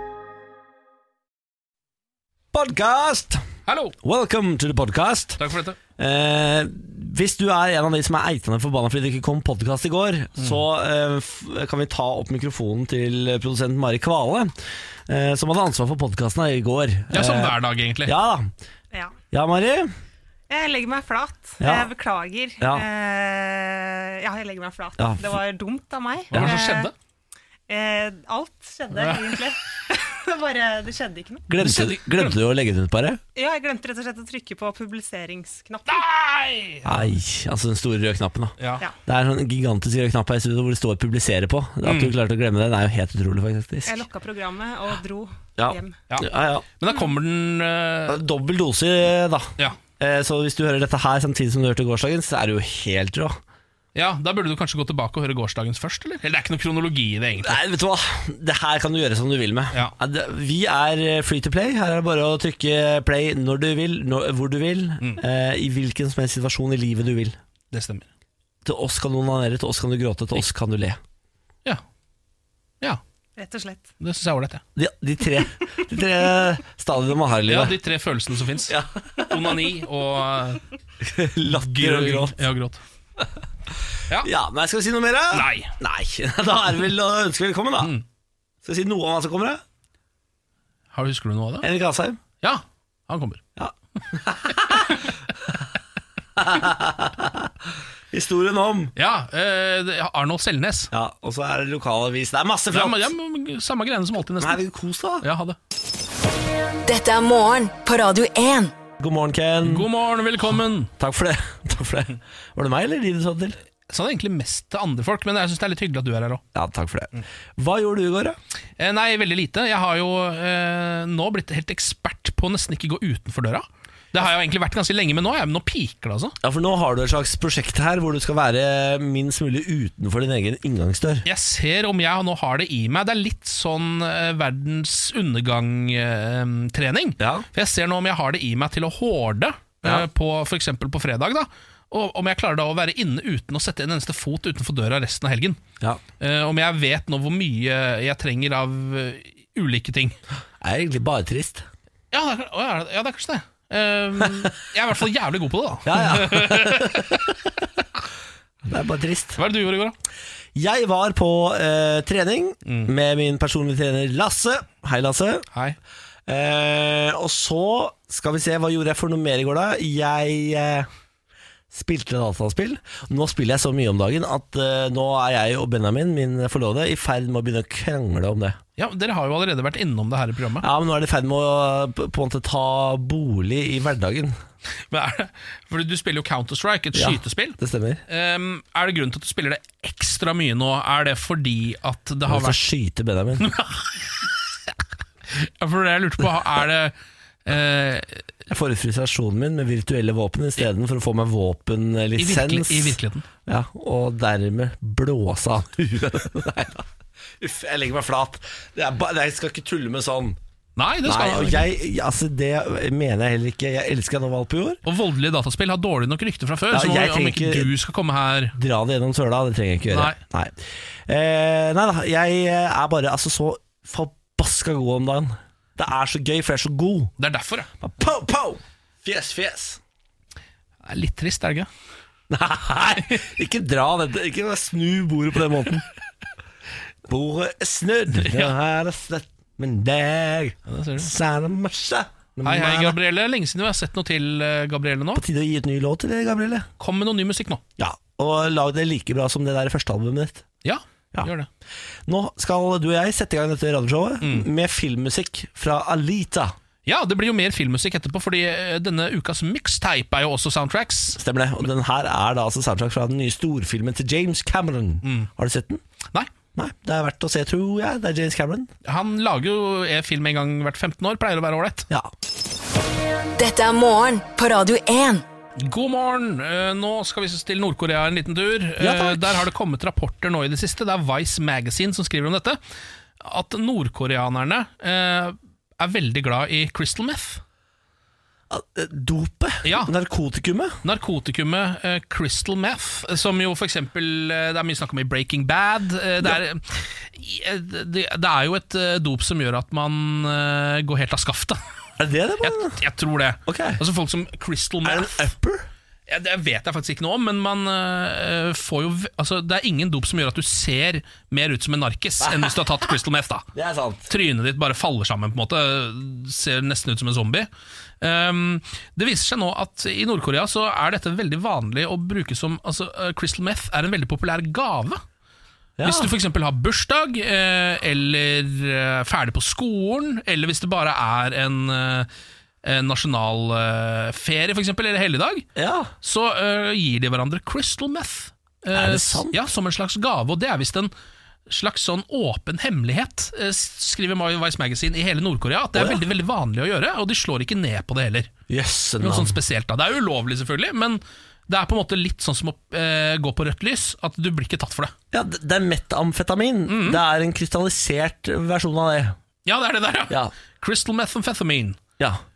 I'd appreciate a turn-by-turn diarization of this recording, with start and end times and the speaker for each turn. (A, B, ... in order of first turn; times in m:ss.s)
0:02.5-0:03.4 A
0:03.7-0:04.0 B
0:04.0-0:05.4 A
0:05.4-0:05.8 B
0:06.0-0:14.5 A
0:15.1-0:18.5 A
0:17.1-0:18.1 B
0:19.3-0:19.9 A
0:20.5-0:26.9 C
0:21.6-0:21.9 A
0:25.0-0:25.2 A
0:26.3-0:26.9 B
0:27.7-0:31.5 C
0:29.0-0:29.3 B
0:31.5-0:33.2 A
0:31.6-0:32.4 B
0:33.3-0:36.0 C
0:35.9-0:37.1 B
0:36.8-0:38.5 A
0:38.6-0:38.8 B
0:39.0-0:44.1 A
0:41.8-0:42.1 B
0:43.8-0:45.9 C
0:45.6-0:46.7 A
0:46.8-0:48.2 B
0:48.1-0:53.4 A
0:53.9-0:57.6 B
0:57.4-1:07.4 A
1:07.7-1:08.0 B
1:08.6-1:11.0 A
1:13.4-1:13.9 C
1:14.0-1:14.6 B
1:14.8-1:17.8 A
1:17.5-1:20.6 B
1:18.7-1:19.4 A
1:21.0-1:22.4 A
1:21.4-1:22.8 B
1:24.2-1:27.9 A
1:25.3-1:25.7 B
1:28.6-1:29.6 A
1:30.9-1:31.7 B
1:31.6-1:32.2 A
1:32.4-1:33.4 B
1:33.6-1:35.1 A
1:34.7-1:35.0 B
1:36.4-1:37.5 A
1:38.1-1:38.9 A
1:39.0-1:40.9 B
1:40.9-1:43.1 A
1:42.7-1:44.6 B
1:44.4-1:45.2 A
1:45.2-1:45.6 B
1:46.8-1:48.7 D
1:49.0-1:49.9 A
1:49.6-1:50.9 B
1:51.0-1:53.6 A
1:53.9-1:56.4 B
1:56.5-1:58.4 A
1:58.8-2:06.4 B
2:06.4-2:11.2 A
2:11.2-2:25.6 B
2:17.2-2:17.4 A
2:26.2-2:30.2 B
2:30.6-2:31.7 A
2:32.1-2:37.2 B
2:35.8-2:37.5 A
2:38.6-2:39.4 A
2:39.4-2:39.9 B
2:40.5-2:45.5 A
2:42.6-2:42.9 B
2:46.3-2:50.9 A
2:51.7-2:58.6 A
2:58.8-3:00.6 B
3:00.6-3:04.4 A
3:04.9-3:07.6 B
3:06.9-3:08.0 A
3:08.1-3:12.6 B
3:12.3-3:13.5 A
3:13.4-3:14.0 B
3:15.3-3:18.2 B
3:18.5-3:26.9 A
3:22.2-3:23.3 B
3:27.4-3:30.4 A
3:30.8-3:31.7 B
3:31.0-3:34.8 A
3:34.8-3:38.5 B
3:36.7-3:37.7 A
3:38.5-3:47.1 A
3:39.9-3:40.2 B
3:47.2-3:47.7 B
3:47.8-3:49.8 A
3:50.8-3:51.7 B
3:52.3-3:55.8 A
3:57.1-4:03.0 A
3:58.1-3:58.5 B
4:00.7-4:01.1 B
4:02.4-4:05.2 B
4:05.2-4:06.7 A
4:06.8-4:07.6 B
4:07.8-4:10.4 A
4:10.6-4:11.5 B
4:12.1-4:16.5 A
4:14.2-4:14.5 B
4:16.8-4:21.2 B
4:21.2-4:25.8 A
4:25.0-4:25.3 B
4:26.5-4:28.7 A
4:28.8-4:31.9 B
4:33.4-4:35.2 D
4:35.6-4:42.6 B
4:38.8-4:39.4 A
4:43.2-4:47.4 B
4:48.5-4:50.8 A
4:49.6-4:49.9 B
4:50.8-5:01.6 B
5:02.0-5:02.8 A
5:02.4-5:05.3 B
5:03.4-5:03.8 A
5:04.8-5:05.7 A
5:06.1-5:13.5 B
5:12.2-5:12.5 A
5:13.5-5:14.1 A
5:14.1-5:17.5 B
5:18.0-5:25.0 B
5:25.8-5:26.1 A
5:25.8-5:32.1 B
5:32.6-5:35.4 B
5:35.6-5:35.9 A
5:36.0-5:40.9 B
5:38.7-5:39.4 A
5:41.5-5:48.3 B
5:45.7-5:46.0 A
5:48.5-5:49.4 A
5:49.0-5:54.9 B
5:55.1-5:59.1 A
5:56.7-5:57.0 B
5:59.4-6:01.8 B